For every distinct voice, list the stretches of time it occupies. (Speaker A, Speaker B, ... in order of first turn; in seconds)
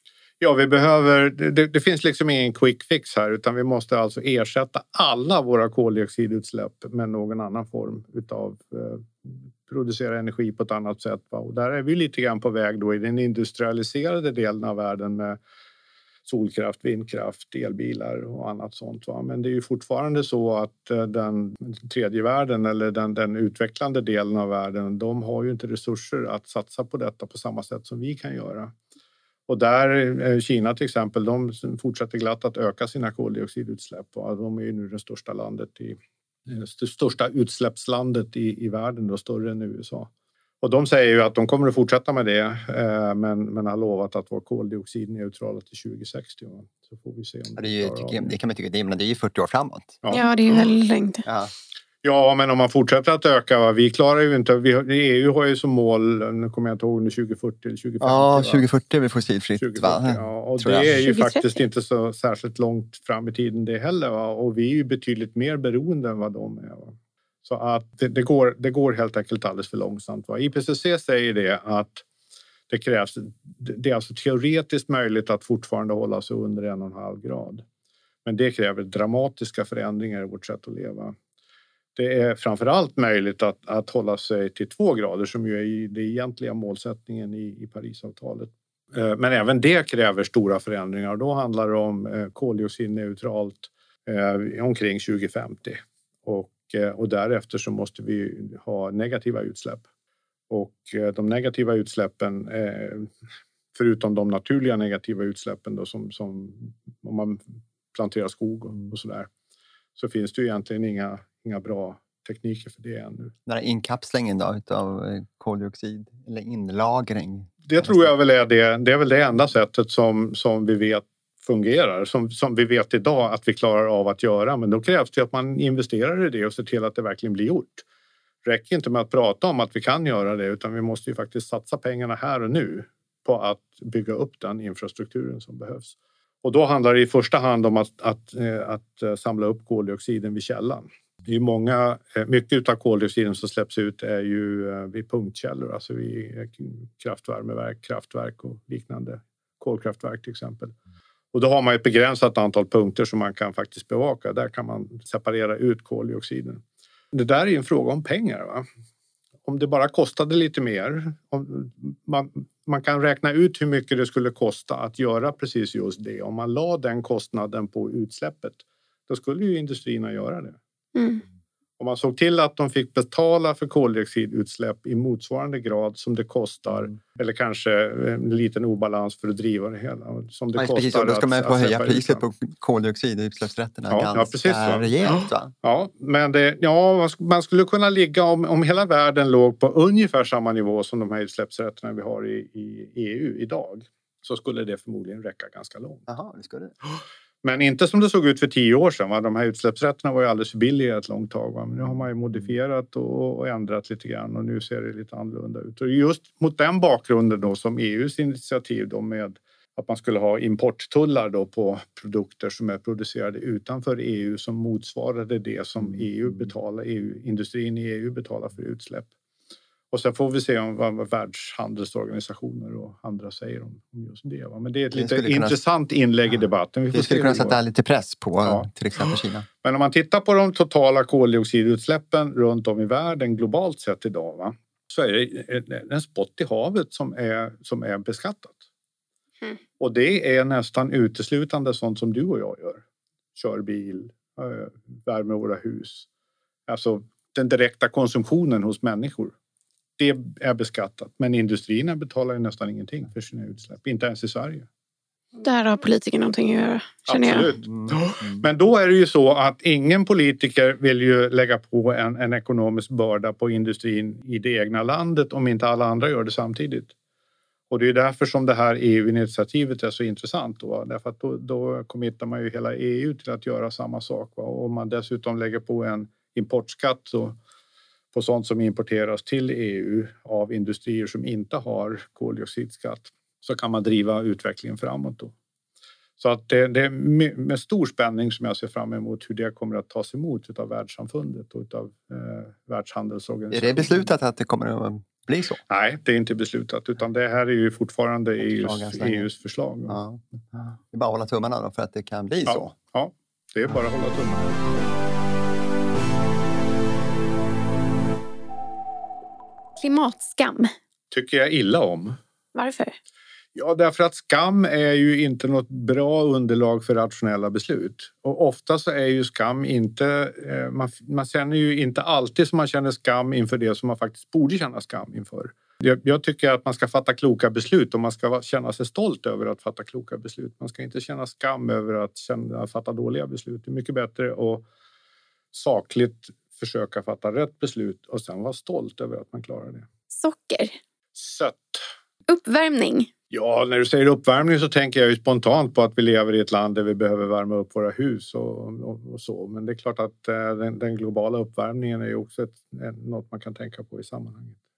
Speaker A: 0.4-15.4, 16.2-28.7, 29.5-48.4, 52.0-58.7, 59.6-72.0, 72.7-77.6, 78.2-81.2, 82.0-99.8, 100.5-103.1, 103.7-109.3, 110.0-113.3, 117.7-127.8, 128.4-150.7, 151.3-158.7, 159.4-170.6, 171.8-182.2, 183.9-196.0, 197.4-219.1, 219.9-227.6, 229.6-238.6, 239.8-242.8, 243.3-246.1, 246.7-249.3, 250.0-254.7, 257.1-266.9, 267.7-277.4, 278.1-285.3, 286.2-294.1, 295.7-300.0, 302.5-304.6, 311.1-312.2, 313.5-334.6, 335.5-339.9, 341.1-341.8, 343.3-354.6
Speaker B: 47.6-50.0, 51.2-51.5, 58.0-61.0, 113.5-118.1, 180.5-185.5, 196.1-196.7, 224.9-225.6, 226.9-229.4, 293.5-295.6, 298.4-299.3, 299.9-302.7
Speaker C: 50.1-51.2, 60.8-61.6, 170.9-171.2, 255.4-257.5, 309.8-310.7, 312.5-312.9, 340.1-340.7, 342.3-343.1